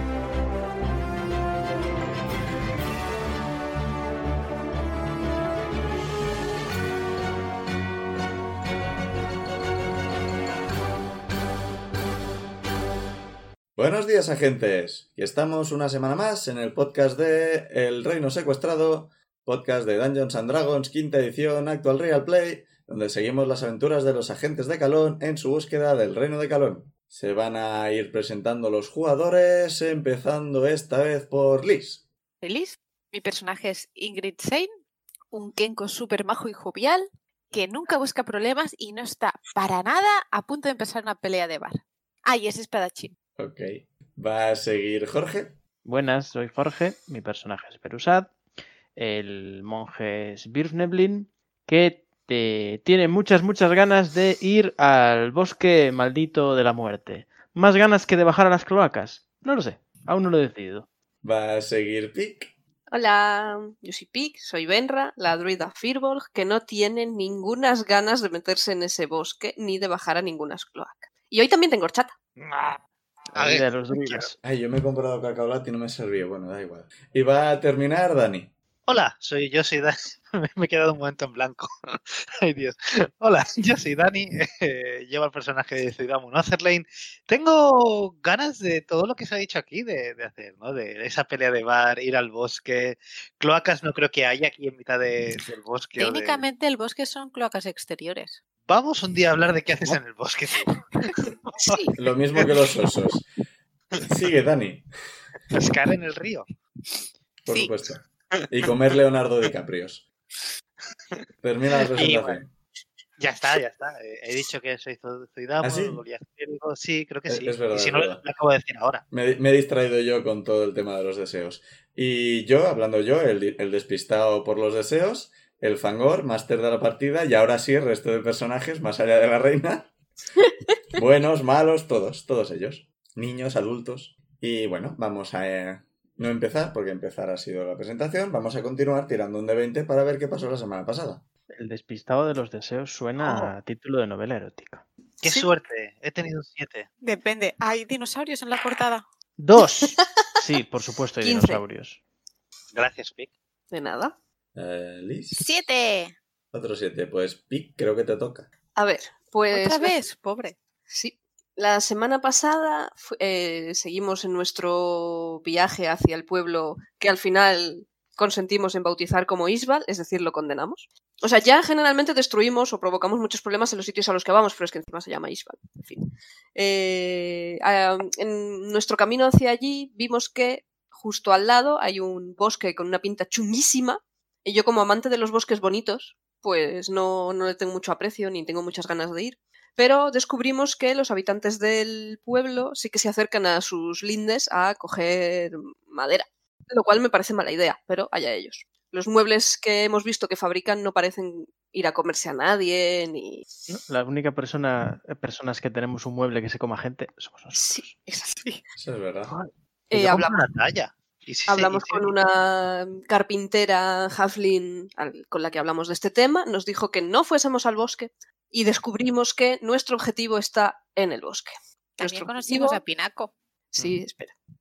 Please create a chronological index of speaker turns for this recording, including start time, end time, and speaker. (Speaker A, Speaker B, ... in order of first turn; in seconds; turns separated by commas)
Speaker A: 13.8-32.0, Speaker B: 32.4-34.7, Speaker B: 35.3-43.1, Speaker A: 43.4-45.6, Speaker C: 45.9-48.3, Speaker C: 49.0-60.9, Speaker A: 61.2-62.5, Speaker D: 62.9-72.2, Speaker E: 72.4-72.8, Speaker E: 73.3-74.3, Speaker C: 73.3-74.4, Speaker A: 74.4-78.5, Speaker E: 78.9-96.4, Speaker B: 96.0-98.4, Speaker E: 98.7-101.8, Speaker A: 102.0-103.3, Speaker E: 102.4-102.7, Speaker A: 104.0-104.9, Speaker E: 105.5-106.5, Speaker A: 107.5-110.0, Speaker A: 111.4-112.5, Speaker E: 111.8-112.4, Speaker E: 113.2-119.0, Speaker A: 115.6-116.0, Speaker A: 117.3-118.2, Speaker A: 119.1-129.9, Speaker A: 130.9-141.2, Speaker C: 141.5-144.8, Speaker E: 143.2-143.5, Speaker E: 145.2-146.9, Speaker B: 147.0-149.0, Speaker C: 149.4-152.0, Speaker D: 151.2-151.6, Speaker E: 152.7-153.3, Speaker D: 153.7-154.1, Speaker A: 154.6-155.5, Speaker B: 155.3-156.2, Speaker A: 156.5-158.5, Speaker D: 158.8-160.0, Speaker B: 159.5-160.6, Speaker D: 160.9-203.4, Speaker C: 203.7-207.8, Speaker D: 207.6-208.6, Speaker A: 208.8-209.3, Speaker D: 209.9-210.4, Speaker E: 209.9-212.1, Speaker D: 211.5-222.8, Speaker B: 222.0-223.3, Speaker D: 223.7-224.4